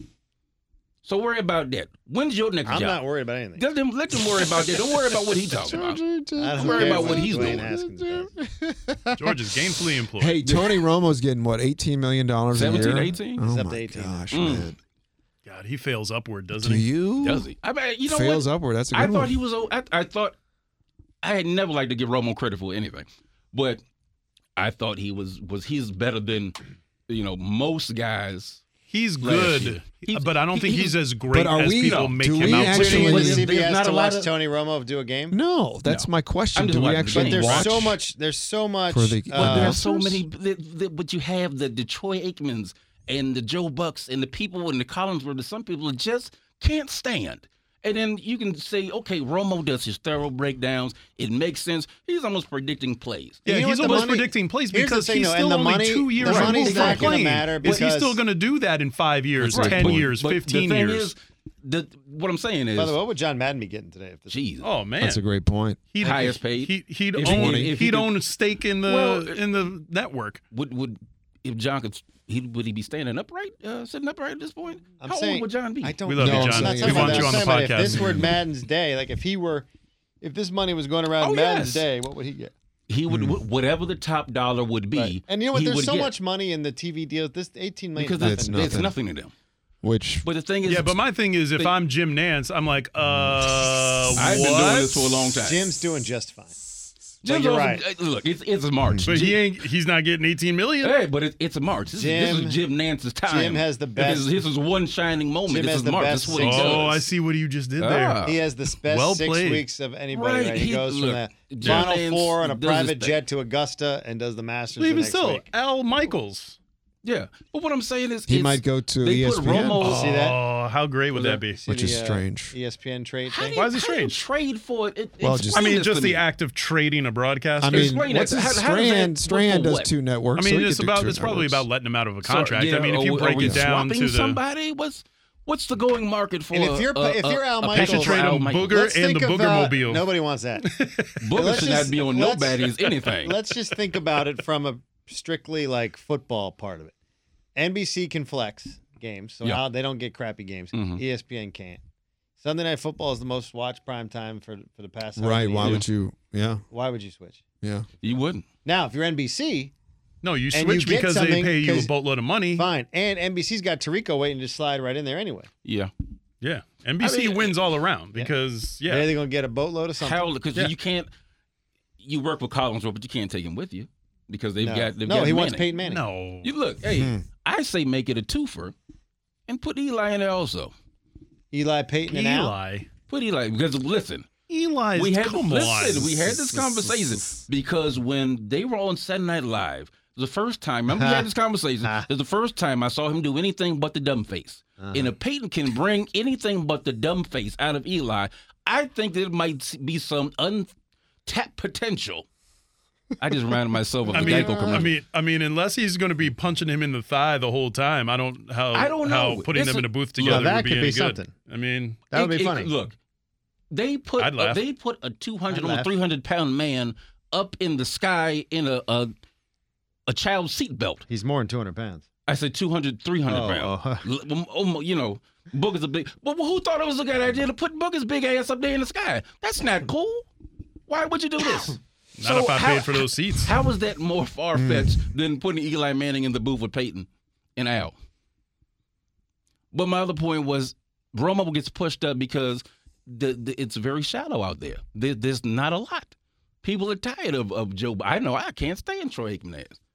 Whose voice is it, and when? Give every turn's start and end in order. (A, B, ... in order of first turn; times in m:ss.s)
0:01.0-0:03.0 A
0:02.7-0:03.6 B
0:03.6-0:06.0 A
0:05.5-0:08.8 C
0:06.4-0:09.2 B
0:06.6-0:07.7 A
0:09.2-0:10.5 D
0:10.2-0:14.8 C
0:12.5-0:13.4 A
0:13.4-0:14.6 B
0:14.3-0:14.7 A
0:15.5-0:16.9 D
0:16.6-0:17.5 C
0:17.2-0:20.4 A
0:18.1-0:19.3 C
0:21.2-0:23.8 A
0:24.6-0:26.6 A
0:27.1-0:28.6 A
0:28.9-0:33.4 D
0:29.2-0:31.0 A
0:31.3-0:33.5 C
0:31.8-0:34.3 A
0:32.8-0:35.4 B
0:35.3-0:38.0 C
0:35.9-0:37.7 A
0:37.1-0:39.8 B
0:38.9-0:40.2 C
0:39.4-0:54.2 A
0:53.4-1:01.1 D
0:53.5-0:58.2 B
0:56.2-0:57.4 A
0:59.4-1:00.1 C
0:59.4-1:03.0 A
1:02.8-1:04.4 B
1:04.3-1:04.7 A
1:04.6-1:05.2 D
1:05.0-1:05.8 C
1:05.9-1:10.4 D
1:06.0-1:08.2 A
1:07.2-1:07.7 C
1:08.9-1:09.4 A
1:10.5-1:16.0 A
1:15.0-1:19.7 B
1:16.1-1:18.3 D
1:16.2-1:18.4 C
1:20.2-1:22.5 B
1:21.2-1:21.9 A
1:22.9-1:26.1 A
1:23.1-1:23.4 C
1:25.0-1:28.8 B
1:28.0-1:29.3 A
1:28.2-1:29.0 C
1:29.8-1:30.3 C
1:30.2-1:31.0 A
1:30.7-1:35.2 D
1:34.1-1:35.7 A
1:35.4-1:36.6 B
1:37.2-1:39.4 A
1:37.3-1:37.8 B
1:39.1-1:41.0 D
1:40.8-1:47.0 A
1:42.0-1:42.6 B
1:43.3-1:44.3 B
1:45.5-1:46.9 B
1:46.3-1:48.2 D
1:47.8-1:48.4 A
1:48.2-1:55.5 B
1:48.8-1:49.7 D
1:50.1-1:53.2 A
1:51.6-1:51.9 D
1:54.8-1:56.6 D
1:57.0-2:00.2 A
1:58.3-2:00.1 C
1:59.8-2:00.4 B
1:59.8-2:01.6 D
2:01.2-2:01.4 A
2:01.5-2:03.6 B
2:01.7-2:02.5 C
2:03.3-2:06.2 A
2:03.5-2:04.2 D
2:05.2-2:05.8 C
2:05.5-2:07.9 D
2:07.6-2:11.6 C
2:07.7-2:09.9 A
2:10.4-2:14.4 D
2:12.2-2:18.8 A
2:13.4-2:13.6 C
2:16.5-2:20.7 B
2:17.7-2:20.1 D
2:20.6-2:21.3 D
2:21.2-2:23.4 A
2:21.3-2:22.6 B
2:22.7-2:23.1 D
2:23.2-2:27.0 B
2:27.6-2:31.8 B
2:30.7-2:31.0 A
2:32.4-2:35.9 B
2:35.2-2:36.6 C
2:36.7-2:37.4 B
2:37.6-2:37.9 C
2:38.0-2:38.4 A
2:38.6-2:39.7 B
2:40.2-2:42.7 D
2:40.5-2:41.9 B
2:42.6-2:45.5 B
2:45.6-2:45.9 A
2:46.4-2:49.1 D
2:47.0-2:47.6 A
2:48.8-2:50.3 B
2:50.0-2:51.1 A
2:52.0-2:55.7 A
2:54.6-2:56.0 B
2:55.8-2:56.5 D
2:56.4-2:58.7 A
2:59.5-3:00.7 A
3:01.5-3:02.6 B
3:02.1-3:02.9 D
3:03.1-3:04.3 A
3:04.5-3:06.2 D
3:05.0-3:20.7 A
3:10.9-3:11.3 B
3:14.8-3:15.1 B
3:21.3-3:22.3 A
3:23.2-3:24.9 A
3:24.1-3:32.0 D
3:24.1-3:24.9 C
3:28.7-3:30.5 A
3:30.3-3:31.3 B
3:32.1-3:32.7 B
3:32.1-3:33.0 A
3:33.7-3:39.1 A
3:34.2-3:34.6 D
3:35.5-3:35.9 B
3:40.1-3:41.0 A
3:41.1-3:42.0 B
3:42.3-3:50.3 A
3:43.3-3:44.0 B
3:50.9-3:58.0 A
3:52.2-3:53.5 D
3:54.6-3:55.0 C
3:59.7-4:06.1 A
4:06.6-4:09.8 A